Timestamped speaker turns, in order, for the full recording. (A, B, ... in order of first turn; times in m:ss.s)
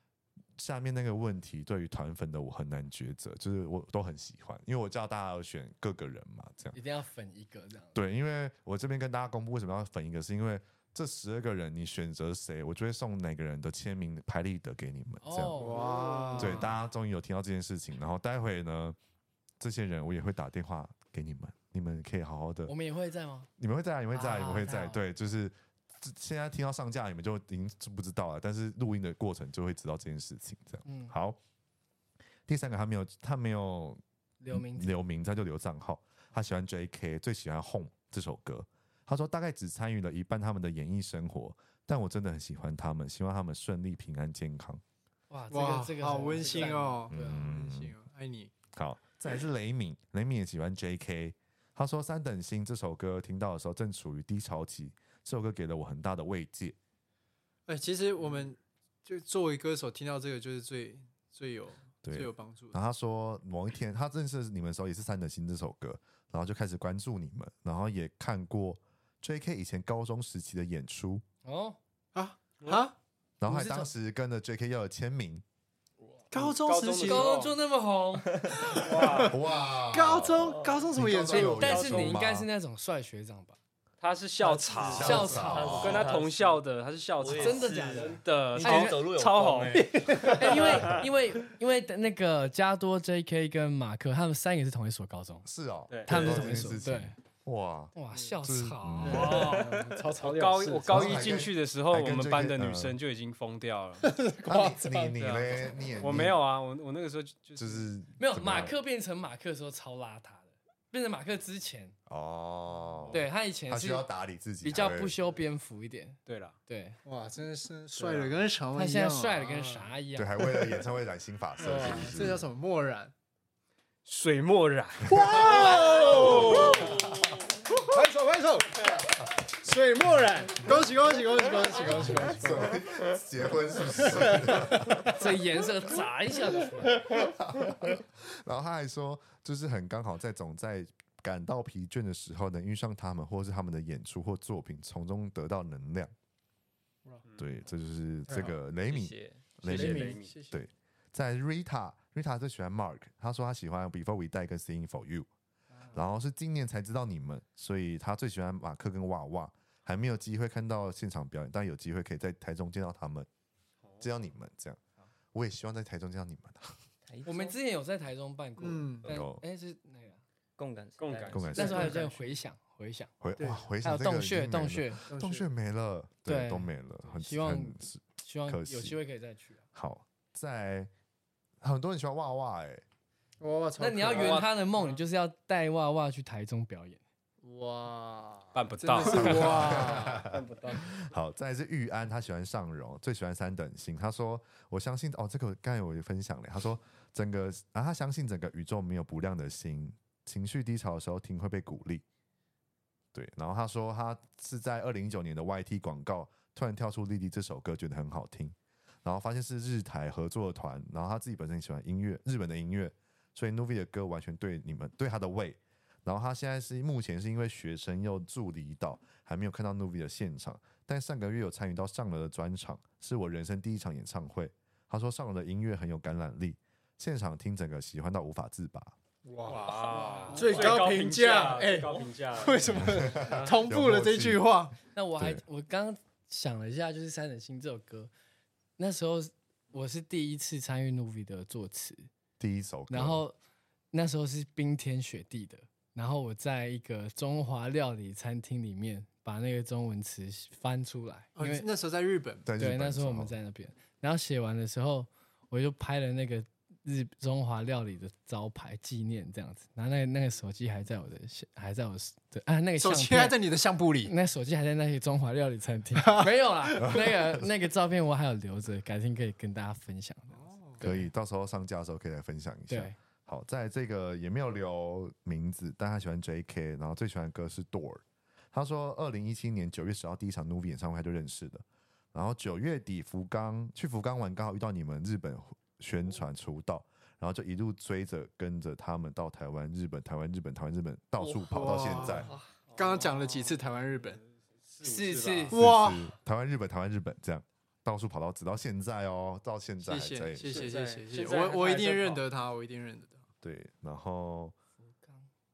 0:00.6-0:06.8 A
0:06.7-0:08.0 B
0:07.9-0:15.6 A
0:15.2-0:16.7 B
0:15.6-0:16.7 C
0:16.4-0:19.0 A
0:19.6-0:22.7 A
0:22.7-0:23.5 B
0:23.6-0:31.4 A
0:24.1-0:25.0 B
0:30.8-0:31.1 B
0:32.5-0:44.8 A
0:34.4-0:35.0 B
0:45.3-0:47.4 B
0:45.5-0:48.5 C
0:47.1-0:47.9 A
0:48.7-0:56.8 A
0:57.7-1:02.8 C
1:02.0-1:11.2 A
1:11.4-1:11.8 B
1:12.1-1:13.0 C
1:12.6-1:12.9 D
1:13.4-1:15.4 A
1:13.4-1:13.9 B
1:16.3-1:17.4 C
1:16.3-1:17.6 D
1:17.0-1:18.3 B
1:18.5-1:19.4 C
1:18.8-1:19.4 D
1:19.3-1:22.5 A
1:19.9-1:21.9 C
1:20.6-1:20.8 E
1:21.3-1:23.6 B
1:21.6-1:22.1 D
1:24.0-1:31.0 D
1:24.4-1:26.6 E
1:24.9-1:26.1 A
1:25.0-1:25.8 B
1:27.2-1:31.0 E
1:27.3-1:29.0 B
1:29.8-1:30.6 C
1:30.3-1:35.5 B
1:35.4-1:39.6 A
1:35.9-1:36.6 D
1:36.0-1:37.1 B
1:37.9-1:40.9 B
1:39.0-1:39.6 C
1:39.0-1:44.1 D
1:40.9-1:43.0 A
1:44.0-1:45.2 C
1:44.4-1:46.4 A
1:45.2-1:47.9 D
1:47.6-1:48.7 A
1:48.2-1:51.9 B
1:52.1-1:55.2 A
1:53.1-1:54.1 B
1:54.6-1:57.0 B
1:56.3-1:56.6 D
1:57.0-1:59.9 C
1:58.0-1:58.4 D
1:58.7-2:00.5 B
2:00.1-2:02.4 A
2:01.6-2:03.1 C
2:04.0-2:07.0 D
2:05.0-2:07.1 C
2:05.1-2:05.6 A
2:05.8-2:07.2 E
2:07.7-2:12.9 C
2:12.1-2:15.2 A
2:14.0-2:15.2 C
2:15.0-2:17.1 B
2:17.0-2:26.1 A
2:27.4-2:35.3 A
2:28.3-2:28.6 C
2:28.9-2:29.5 E
2:29.6-2:30.3 D
2:29.6-2:30.6 C
2:35.9-2:43.3 A
2:43.8-2:44.1 D
2:44.0-2:44.8 A
2:45.3-2:46.8 A
2:47.0-2:47.5 E
2:47.2-2:50.2 B
2:48.6-2:49.1 C
2:49.0-2:49.4 A
2:50.6-2:52.0 E
2:51.0-2:52.0 D
2:51.3-2:52.0 A
2:51.6-2:53.1 B
2:51.8-2:52.0 C
2:53.2-2:59.0 A
2:53.4-2:53.7 C
2:53.8-2:55.0 B
2:55.1-2:55.5 C
2:56.3-2:59.6 B
2:59.7-3:00.9 A
3:01.6-3:02.8 A
3:03.4-3:04.5 C
3:03.8-3:07.0 B
3:04.1-3:05.0 D
3:07.4-3:10.3 C
3:08.5-3:10.4 D
3:09.0-3:22.0 A
3:23.1-3:48.9 A
3:49.3-3:49.7 C
3:49.4-3:53.6 D
3:49.9-3:50.8 B
3:50.3-3:54.8 C
3:52.7-3:54.5 A
3:54.9-3:58.1 B
3:58.8-4:02.1 B
4:02.4-4:03.2 A
4:02.9-4:03.4 B
4:03.9-4:11.7 B
4:11.4-4:12.5 C
4:12.4-4:13.3 A
4:12.6-4:23.4 B
4:22.8-4:24.1 C
4:24.0-4:31.1 B
4:26.0-4:26.8 C
4:26.8-4:27.5 A
4:30.3-4:30.8 C
4:30.8-4:52.3 A
4:32.7-4:33.0 B
4:51.2-4:52.6 E
4:51.5-4:54.2 C
4:52.7-4:55.6 D
4:54.8-4:55.6 B
4:55.5-4:56.1 C
4:55.5-5:00.5 A
4:59.8-5:03.2 C
5:00.4-5:02.2 D
5:03.4-5:04.6 A
5:04.8-5:05.3 B